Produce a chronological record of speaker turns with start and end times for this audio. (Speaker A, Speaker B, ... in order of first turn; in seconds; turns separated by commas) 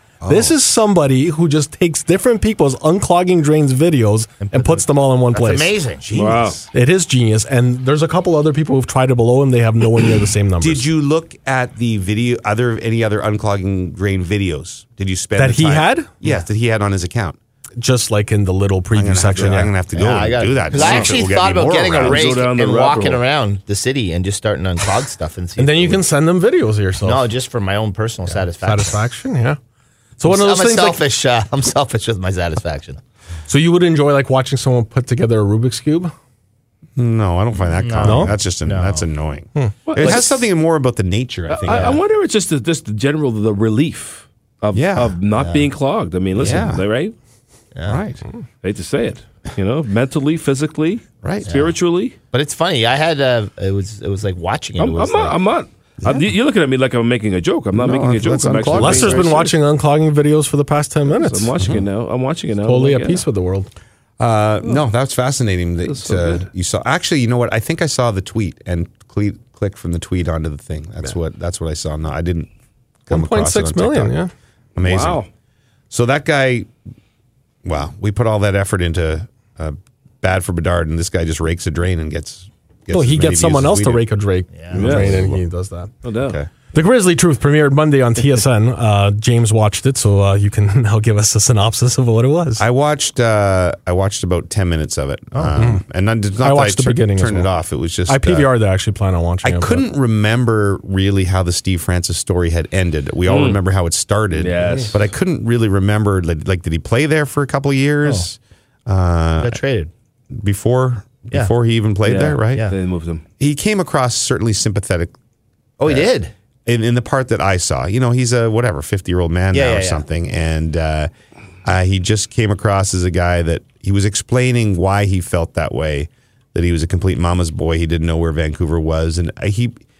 Speaker A: 0.2-0.6, Speaker B: 0.3-5.7, Speaker C: 4.4-6.0, Speaker A: 6.0-6.7, Speaker D: 6.1-6.6, Speaker B: 6.7-10.8, Speaker A: 10.6-17.4, Speaker B: 15.4-16.1, Speaker B: 17.8-19.7, Speaker A: 18.9-22.4, Speaker C: 19.9-26.0, Speaker D: 20.7-21.2, Speaker D: 21.9-23.2, Speaker B: 25.6-27.3, Speaker C: 27.0-29.0, Speaker B: 28.3-29.6, Speaker B: 30.2-31.0, Speaker C: 30.2-33.0, Speaker B: 33.5-36.1, Speaker A: 37.0-42.0, Speaker C: 37.8-39.0, Speaker B: 38.0-38.3, Speaker D: 39.9-40.4, Speaker D: 41.5-47.1, Speaker C: 41.7-42.0, Speaker A: 44.7-45.2, Speaker C: 45.3-45.7, Speaker A: 46.4-46.8, Speaker C: 47.7-48.0, Speaker A: 47.9-48.2, Speaker D: 48.6-52.1, Speaker A: 51.2-51.5, Speaker C: 51.5-51.7, Speaker C: 52.3-55.4, Speaker D: 54.8-59.5, Speaker A: 56.0-56.3, Speaker A: 57.7-59.4, Speaker B: 58.7-61.5, Speaker D: 61.1-63.2, Speaker B: 62.6-63.7, Speaker A: 64.2-72.5, Speaker D: 65.8-66.5, Speaker A: 73.0-74.1, Speaker B: 73.1-74.3, Speaker A: 74.8-75.2, Speaker D: 74.8-75.3, Speaker A: 75.9-76.7, Speaker A: 77.6-84.0, Speaker B: 82.9-85.9, Speaker C: 84.5-84.8, Speaker A: 84.7-85.4, Speaker D: 84.7-85.2, Speaker D: 86.0-86.4, Speaker A: 86.2-86.5, Speaker B: 86.7-92.6, Speaker A: 92.6-98.5, Speaker B: 96.4-97.5, Speaker B: 98.1-99.8, Speaker A: 99.4-109.6, Speaker D: 103.3-103.6, Speaker D: 104.3-105.0, Speaker C: 109.4-109.9, Speaker A: 110.3-112.7, Speaker D: 112.0-113.2, Speaker A: 113.4-115.1, Speaker C: 115.8-116.3, Speaker A: 115.8-116.1, Speaker A: 116.7-121.1, Speaker C: 119.5-120.0, Speaker A: 121.6-129.8